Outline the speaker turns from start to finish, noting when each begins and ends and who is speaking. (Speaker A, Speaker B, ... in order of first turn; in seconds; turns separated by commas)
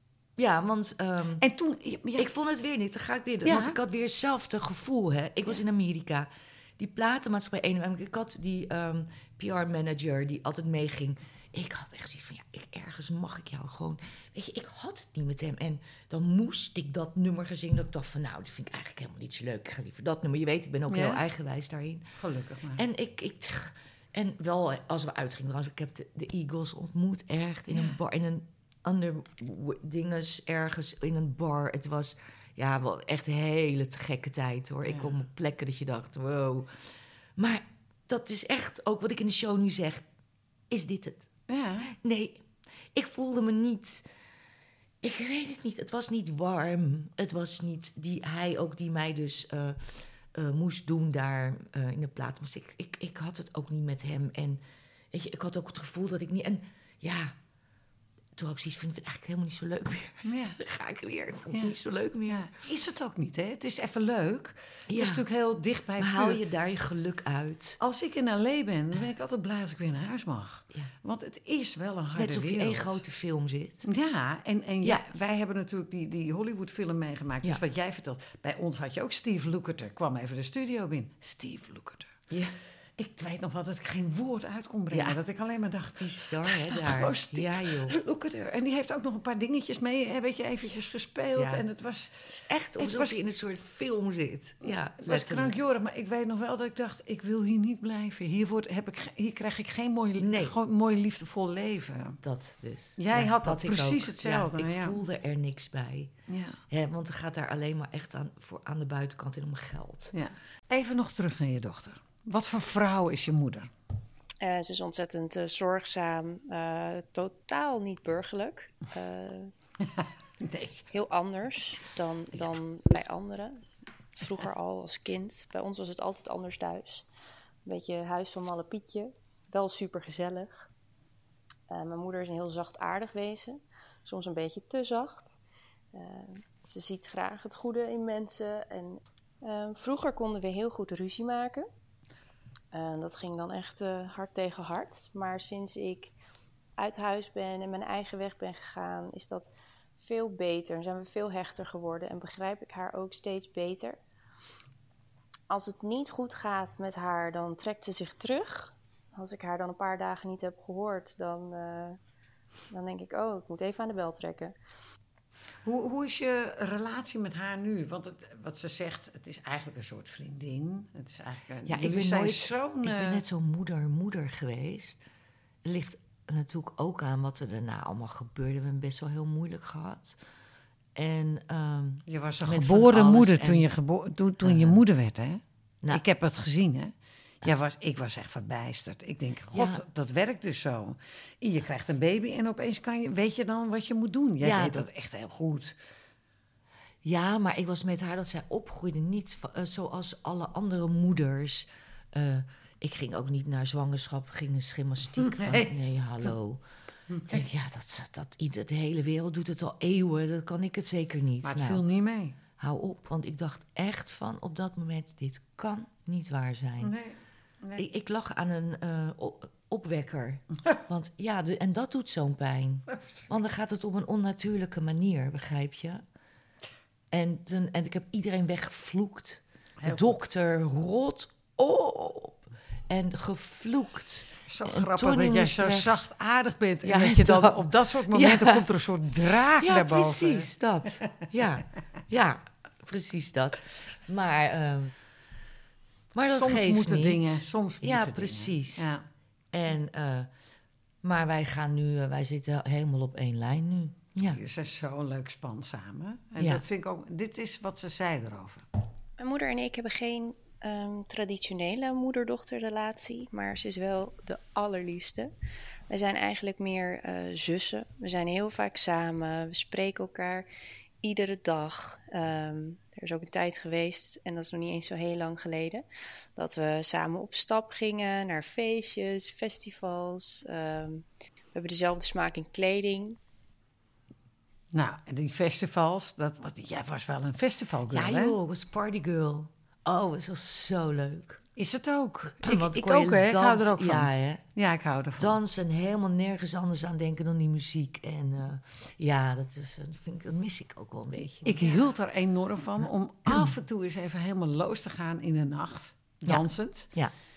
Speaker A: 0.4-1.4, Speaker B: 1.4-2.3, Speaker A: 2.2-22.0, Speaker B: 3.4-3.8, Speaker B: 20.9-21.2, Speaker B: 22.2-22.8, Speaker A: 22.8-40.0, Speaker B: 27.7-28.0, Speaker B: 34.8-35.2, Speaker A: 40.7-41.3, Speaker B: 41.5-41.9, Speaker A: 41.9-44.0, Speaker A: 45.0-57.3, Speaker A: 58.4-62.5, Speaker B: 60.2-60.6, Speaker B: 61.5-61.7, Speaker B: 62.3-66.4, Speaker A: 64.9-65.2, Speaker A: 66.0-67.8, Speaker B: 67.8-73.0, Speaker A: 72.1-73.8, Speaker B: 73.8-82.1, Speaker A: 82.3-82.5, Speaker B: 83.0-92.2, Speaker A: 84.9-85.2, Speaker A: 86.0-87.9, Speaker A: 91.3-91.6, Speaker A: 92.3-95.5, Speaker B: 92.8-93.1, Speaker B: 94.6-102.2, Speaker A: 100.2-100.5, Speaker A: 102.2-106.1, Speaker B: 103.0-105.0, Speaker B: 106.3-106.6, Speaker A: 106.7-110.1, Speaker B: 110.1-113.7, Speaker C: 114.4-119.5, Speaker B: 120.0-120.9, Speaker C: 120.9-123.6, Speaker C: 124.2-127.0, Speaker C: 127.6-130.7, Speaker C: 131.7-135.3, Speaker C: 135.9-141.7, Speaker C: 142.7-146.1, Speaker C: 146.8-154.0, Speaker C: 155.5-162.0, Speaker C: 162.7-164.5, Speaker B: 165.6-173.2, Speaker A: 171.7-175.0, Speaker A: 175.6-180.2, Speaker A: 180.9-183.7, Speaker B: 182.1-195.7, Speaker A: 184.4-184.8, Speaker A: 189.5-189.8, Speaker A: 194.4-194.8, Speaker A: 197.0-206.6, Speaker B: 205.2-205.7, Speaker B: 207.1-207.4, Speaker A: 207.2-211.8, Speaker B: 211.4-212.3, Speaker A: 212.6-216.9, Speaker B: 216.8-217.8, Speaker A: 217.8-226.0, Speaker A: 227.1-235.9, Speaker B: 229.8-230.2, Speaker B: 234.5-240.5, Speaker A: 236.8-238.7, Speaker A: 239.6-244.9, Speaker A: 246.1-248.9, Speaker B: 246.3-249.0, Speaker A: 249.5-250.3, Speaker A: 251.0-254.4, Speaker B: 254.3-258.6, Speaker C: 259.2-265.3, Speaker C: 265.9-270.4, Speaker C: 271.0-275.8, Speaker C: 276.4-283.2, Speaker B: 284.7-288.4, Speaker A: 287.9-291.4, Speaker B: 291.6-295.4, Speaker A: 292.4-294.4, Speaker A: 295.2-301.9, Speaker B: 301.4-306.9, Speaker A: 303.3-303.5, Speaker A: 306.3-307.1